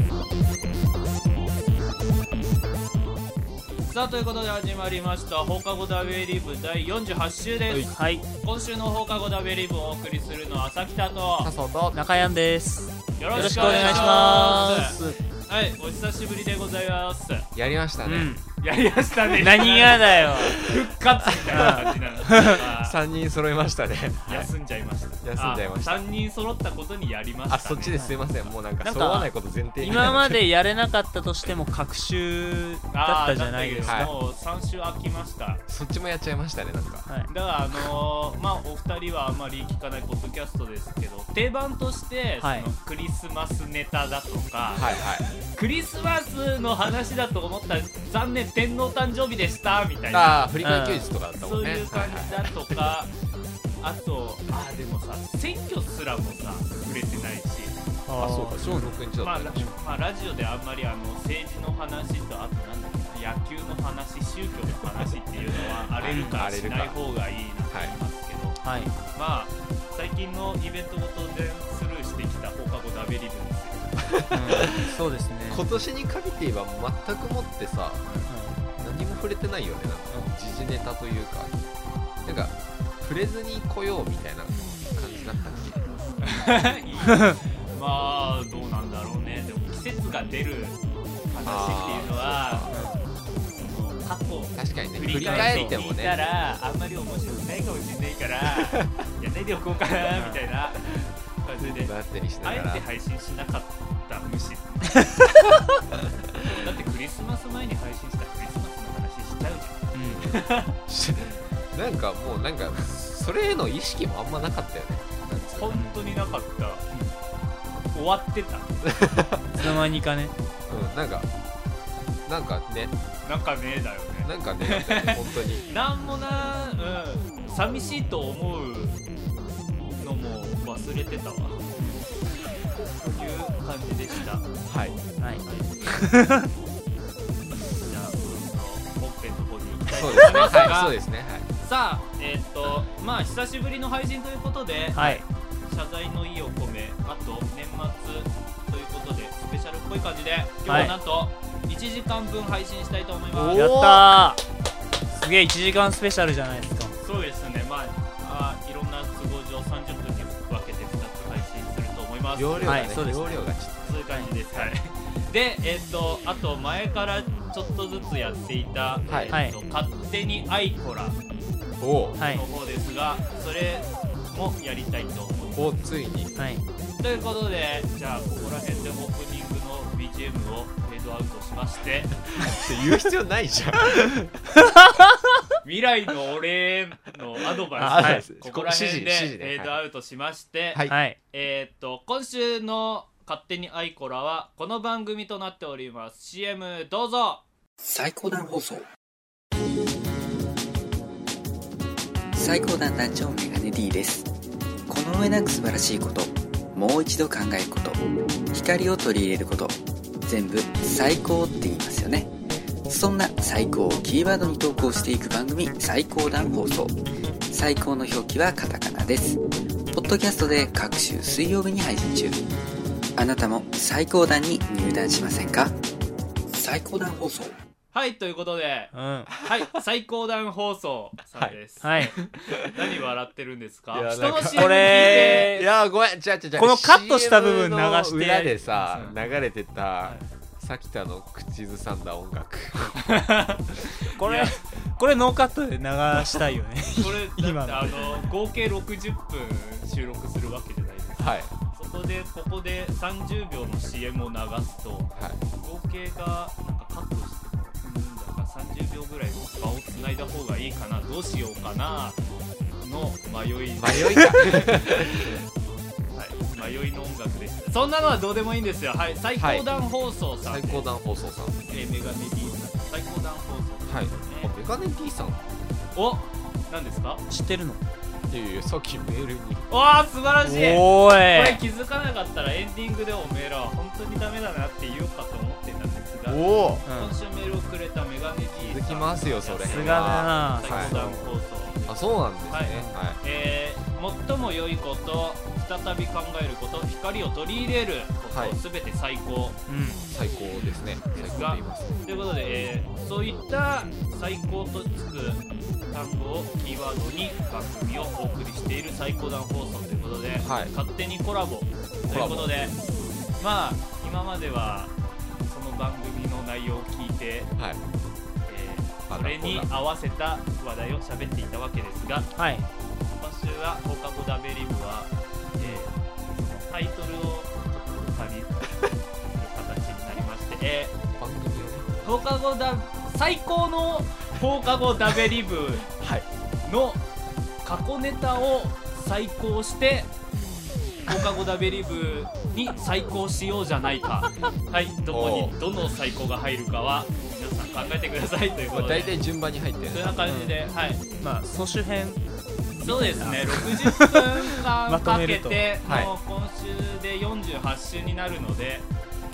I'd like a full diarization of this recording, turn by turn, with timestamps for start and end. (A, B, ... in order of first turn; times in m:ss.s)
0:03.8-0:11.5 A
0:07.9-0:08.2 B
0:11.4-0:12.0 C
0:11.9-0:15.2 B
0:13.2-0:17.5 A
0:13.3-0:14.9 C
0:17.5-0:18.3 C
0:18.0-0:18.4 B
0:18.6-0:23.0 A
0:19.4-0:20.6 B
0:21.2-0:24.5 C
0:21.5-0:22.6 B
0:24.2-0:28.0 A
0:25.2-0:26.0 C
0:27.5-0:30.4 C
0:27.9-0:28.2 B
0:28.8-0:34.1 B
0:32.9-0:35.6 A
0:33.8-0:34.1 C
0:35.7-0:37.1 C
0:37.3-0:44.9 A
0:42.4-0:42.7 B
0:44.7-0:45.2 C
0:45.5-0:50.5 A
0:50.1-0:52.8 C
0:50.6-0:51.1 B
0:51.4-0:53.1 A
0:53.8-0:57.8 A
0:58.1-0:59.0 B
0:58.2-0:59.7 C
0:59.2-1:14.0 A
1:06.0-1:07.0 C
1:06.0-1:06.4 B
1:08.6-1:08.9 B
1:14.0-1:14.9 C
1:14.3-1:15.6 B
1:15.5-1:18.0 C
1:18.3-1:18.6 B
1:18.8-1:21.6 C
1:22.2-1:25.8 C
1:26.2-1:30.8 A
1:31.3-1:32.7 A
1:31.4-1:32.8 C
1:32.7-1:33.0 B
1:33.5-1:45.0 A
1:34.5-1:36.2 C
1:35.2-1:35.7 B
1:40.1-1:40.4 B
1:41.6-1:42.8 C
1:46.5-1:50.8 A
1:49.9-1:50.3 B
1:50.0-1:55.7 C
1:55.5-1:56.8 A
1:55.7-1:56.0 B
1:57.9-1:58.7 A
1:58.8-1:59.7 C
1:59.6-2:00.3 B
2:00.7-2:01.3 C
2:02.2-2:02.9 C
2:03.2-2:09.0 A
2:04.2-2:05.6 C
2:10.0-2:11.7 A
2:11.8-2:12.0 B
2:13.0-2:14.5 A
2:14.6-2:15.0 C
2:15.2-2:16.5 B
2:15.4-2:15.8 A
2:17.8-2:21.0 A
2:19.9-2:21.5 C
2:20.4-2:20.6 B
2:21.6-2:33.7 A
2:24.9-2:25.2 B
2:30.7-2:30.9 B
2:33.3-2:34.1 C
2:33.5-2:34.4 B
2:35.1-2:37.0 B
2:37.0-2:43.1 A
2:42.3-2:44.0 C
2:42.7-2:43.4 B
2:43.8-2:51.2 A
2:49.1-2:49.3 C
2:49.3-2:49.6 B
2:51.8-2:52.2 C
2:52.2-2:52.4 B
2:52.3-2:55.8 A
2:55.6-2:56.3 C
2:56.4-2:56.6 B
2:57.0-3:02.1 A
3:02.3-3:04.4 C
3:04.6-3:05.2 B
3:05.6-3:17.4 A
3:07.7-3:09.8 C
3:07.8-3:08.2 B
3:10.9-3:11.2 B
3:17.8-3:18.8 D
3:22.3-3:24.3 D
3:24.9-3:28.0 D
3:28.5-3:32.3 D
3:32.9-3:37.0 D
3:37.5-3:39.4 D
3:39.9-3:42.4 D
3:43.2-3:45.7 D
3:46.5-3:47.5 D
3:47.9-3:55.5 A
3:48.9-3:49.3 B
3:51.8-3:52.1 B
3:52.2-3:52.7 C
3:53.9-4:03.1 C
3:54.5-3:55.6 B
3:56.6-3:58.9 B
4:03.0-4:04.6 A
4:04.2-4:08.0 B
4:07.0-4:22.2 A
4:11.2-4:11.5 C
4:15.2-4:15.4 C
4:22.8-4:25.1 A
4:23.8-4:25.4 C
4:26.1-4:30.8 A
4:29.4-4:29.6 C
4:30.4-4:31.6 C
4:31.7-4:34.5 A
4:33.9-4:35.4 C
4:35.9-4:37.2 A
4:37.3-4:37.8 B
4:38.3-4:39.6 C
4:39.7-4:59.6 A
4:40.4-4:41.6 B
4:46.3-4:46.8 C
4:46.9-4:47.2 B
4:48.6-4:51.0 C
4:49.6-4:51.4 B
4:51.9-4:53.2 C
4:52.7-4:53.0 B
4:58.3-4:58.6 C
4:59.7-5:00.0 B
5:00.1-5:02.0 C
5:01.1-5:12.7 A
5:10.4-5:10.7 C
5:12.1-5:12.6 C
5:13.4-5:14.9 A
5:15.4-5:17.5 A
5:18.4-5:22.3 A
5:19.1-5:19.7 C
5:22.4-5:22.7 B
5:23.1-5:28.7 A
5:29.2-5:30.9 A
5:31.2-5:32.1 C
5:32.0-5:35.9 A
5:36.0-5:36.3 C
5:36.6-5:37.0 A
5:37.6-5:40.1 A
5:41.1-5:49.2 A
5:45.1-5:45.5 C
5:48.7-5:50.3 C
5:49.9-5:51.0 A
5:50.2-5:50.6 B
5:51.2-5:52.2 B
5:52.8-5:54.3 B
5:52.8-5:58.9 A
5:54.9-5:55.7 B
5:55.8-5:56.1 C